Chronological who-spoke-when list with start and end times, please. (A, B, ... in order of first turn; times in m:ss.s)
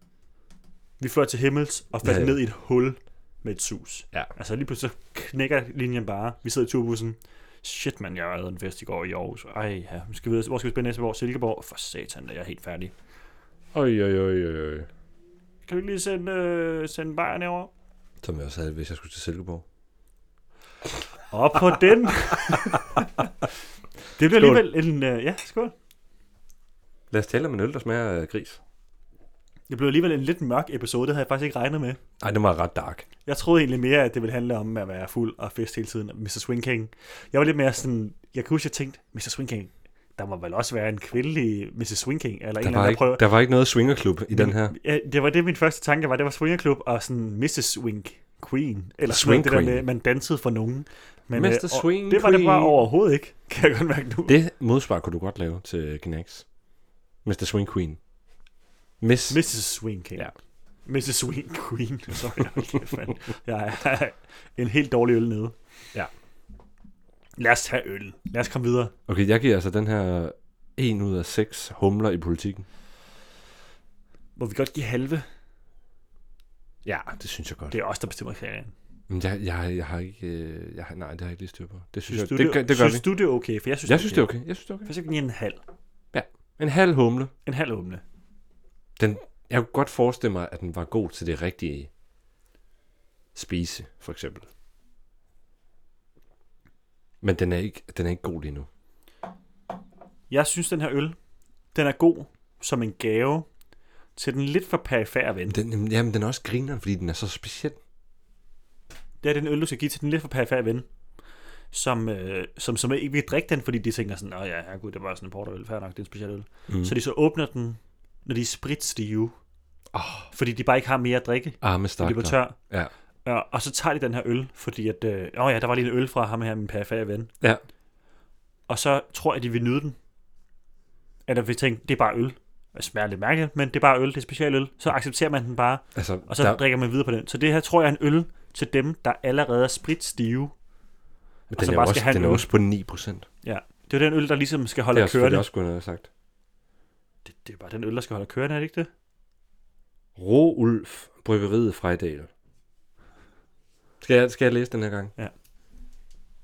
0:01.0-0:12.9 A
0:02.0-0:02.4 B
0:13.7-0:14.9 B
0:15.7-0:17.7 A
0:18.2-0:19.6 B
0:21.3-0:23.3 A
0:24.2-0:25.7 A
0:24.2-0:24.6 B
0:27.1-0:28.6 B
0:29.7-0:32.0 A
0:32.2-0:33.1 B
0:33.3-0:43.2 A
0:42.6-0:44.8 B
0:44.3-0:54.3 A
0:49.1-0:49.8 B
0:51.3-0:52.8 B
0:54.3-0:56.5 B
0:57.2-0:58.0 B
0:59.0-0:59.4 B
0:59.3-1:00.3 A
1:00.9-1:05.6 A
1:07.4-1:08.9 A
1:09.1-1:12.6 B
1:14.4-1:15.2 A
1:16.8-1:17.8 B
1:17.7-1:18.7 A
1:19.1-1:23.0 B
1:22.1-1:24.3 A
1:23.9-1:24.9 B
1:24.8-1:25.6 A
1:26.1-1:27.3 B
1:27.5-1:28.0 A
1:29.0-1:31.9 B
1:33.4-1:34.5 B
1:37.2-1:38.7 B
1:40.3-1:41.2 A
1:41.7-1:43.5 A
1:44.2-1:45.6 A
1:45.5-1:47.8 B
1:49.2-1:50.9 A
1:51.7-1:59.4 A
1:59.9-2:00.3 B
2:00.3-2:02.6 A
2:01.6-2:02.9 B
2:03.2-2:07.3 A
2:08.7-2:10.0 A
2:11.3-2:20.5 A
2:16.0-2:16.6 B
2:21.5-2:23.3 B
2:21.5-2:22.5 A
2:23.4-2:25.5 A
2:24.9-2:26.1 B
2:27.3-2:28.9 A
2:30.2-2:32.3 B
2:34.0-2:35.1 B